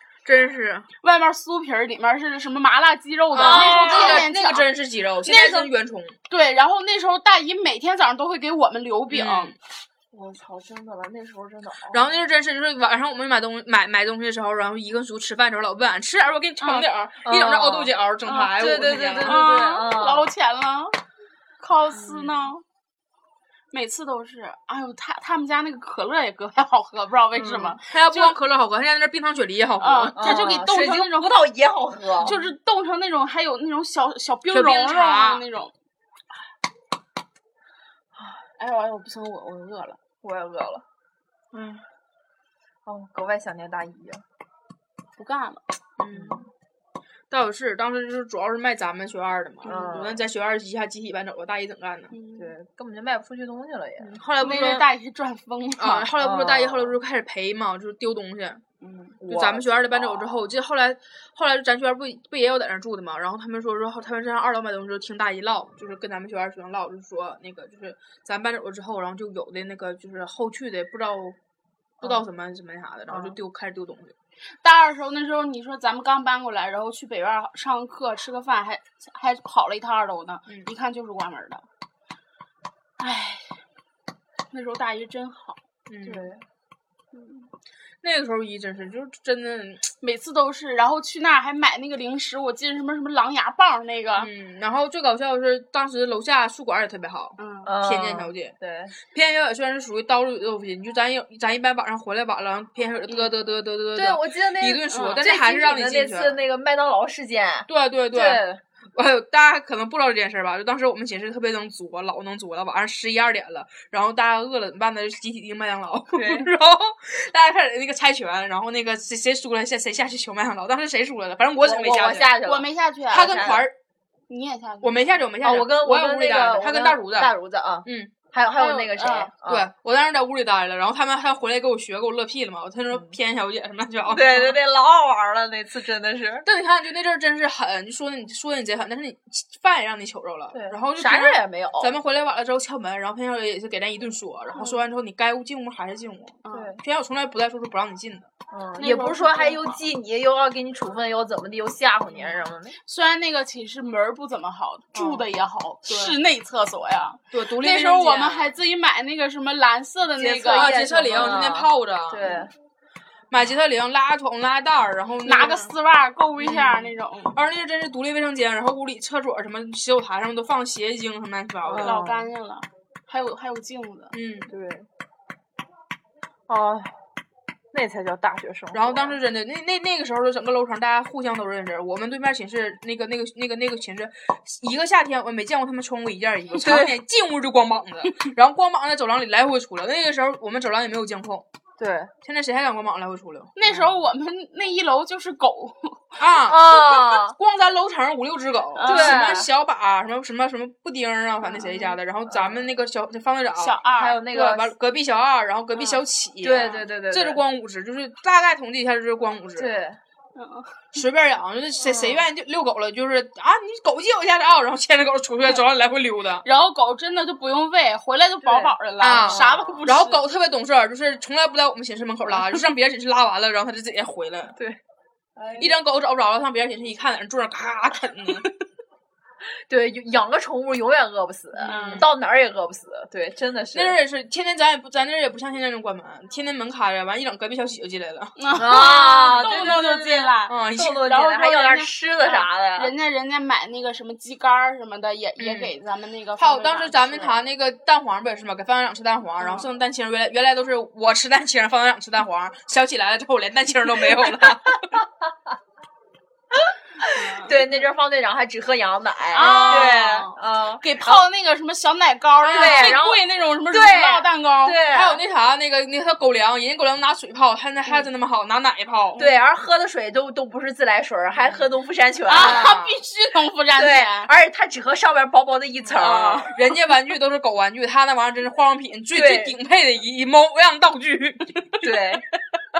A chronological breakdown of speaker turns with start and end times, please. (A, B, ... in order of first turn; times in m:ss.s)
0:00.2-0:00.9 A
0:01.0-0:04.6 B
0:03.3-0:06.2 A
0:03.4-0:04.3 C
0:05.3-0:05.6 C
0:06.3-0:09.6 B
0:09.1-0:09.5 A
0:10.1-0:12.2 C
0:11.9-0:19.4 A
0:16.8-0:17.9 C
0:18.5-0:20.3 C
0:19.2-0:21.0 B
0:21.6-0:22.6 B
0:23.7-0:28.4 B
0:27.3-0:27.8 C
0:27.9-0:30.5 A
0:29.8-0:31.4 B
0:30.2-0:32.3 C
0:32.2-0:35.7 B
0:34.5-0:35.4 A
0:38.6-0:40.0 B
0:40.2-0:40.8 C
0:41.5-0:41.8 A
0:42.8-0:44.2 C
0:45.2-0:45.6 B
0:46.0-0:46.4 A
0:46.1-0:46.5 C
0:47.3-0:52.1 A
0:49.6-0:50.2 C
0:52.1-0:52.5 B
0:52.4-0:54.2 C
0:54.1-0:54.9 A
0:54.4-0:56.1 B
0:55.8-0:58.6 A
0:56.2-0:57.0 C
0:58.8-0:59.2 B
0:59.2-1:00.5 C
0:59.2-1:11.4 A
1:12.0-1:14.1 A
1:13.1-1:13.4 C
1:14.6-1:21.6 B
1:23.0-1:23.6 B
1:24.5-1:25.6 B
1:25.9-1:26.3 A
1:26.0-1:26.4 C
1:27.1-1:27.5 B
1:28.0-1:29.8 A
1:30.0-1:34.3 B
1:34.2-1:38.5 A
1:37.4-1:37.7 B
1:37.6-1:38.9 C
1:39.1-1:46.4 A
1:43.9-1:48.6 C
1:44.9-1:45.2 B
1:47.7-2:02.3 A
1:56.1-1:56.5 C
2:01.6-2:03.6 C
2:02.4-2:03.6 B
2:03.1-2:03.7 A
2:04.3-2:05.2 B
2:04.8-2:07.3 A
2:05.4-2:09.7 C
2:07.8-2:08.1 A
2:08.6-2:09.3 B
2:09.5-2:14.6 A
2:14.1-2:16.5 C
2:16.4-2:28.3 A
2:20.5-2:21.9 C
2:26.4-2:26.7 B
2:26.5-2:26.8 C
2:28.5-2:32.8 C
2:28.8-2:29.8 B
2:32.8-2:41.4 B
2:34.9-2:35.2 C
2:35.8-2:36.2 A
2:37.3-2:38.5 A
2:40.1-2:42.5 C
2:40.5-2:42.3 A
2:43.3-2:45.7 A
2:45.2-2:47.4 B
2:46.4-2:52.0 A
2:51.6-2:52.3 C
2:51.8-2:54.1 B
2:54.1-2:54.5 A
2:54.5-2:54.9 C
2:56.5-2:56.9 C
2:57.7-2:59.2 C
2:58.7-3:11.4 A
3:06.6-3:07.0 C
3:11.8-3:12.1 C
3:12.2-3:13.5 A
3:13.5-3:16.2 B
3:16.2-3:29.7 A
3:16.5-3:17.4 C
3:18.8-3:19.2 B
3:18.8-3:19.5 C
3:21.5-3:21.9 B
3:22.2-3:22.7 C
3:23.6-3:24.2 B
3:23.9-3:24.7 C
3:26.4-3:27.4 C
3:26.6-3:26.8 B
3:29.6-3:30.0 C
3:30.3-3:30.8 B
3:30.9-3:36.4 A
3:31.8-3:32.2 C
3:36.4-3:40.2 B
3:38.4-3:39.8 C
3:39.0-3:44.6 A
3:45.4-3:45.8 C
3:45.6-3:48.5 A
3:49.7-3:54.0 C
3:51.6-3:52.1 B
3:51.7-3:52.1 A
3:53.7-3:58.3 A
3:58.4-4:07.4 B
3:58.5-4:02.9 C
3:59.4-3:59.8 A
4:00.5-4:01.1 A
4:05.4-4:05.7 A
4:06.4-4:15.0 A
4:09.4-4:09.6 B
4:15.0-4:15.3 C
4:16.5-4:21.2 C
4:17.1-4:17.6 B
4:19.3-4:24.8 B
4:19.4-4:19.9 A
4:22.4-4:23.0 A
4:22.5-4:25.2 C
4:24.9-4:29.2 A
4:29.2-4:32.8 C
4:32.3-4:34.3 B
4:32.3-4:33.0 A
4:33.8-4:36.5 C
4:35.9-4:36.6 B
4:36.5-4:41.8 A
4:39.1-4:39.6 C
4:41.8-4:42.2 C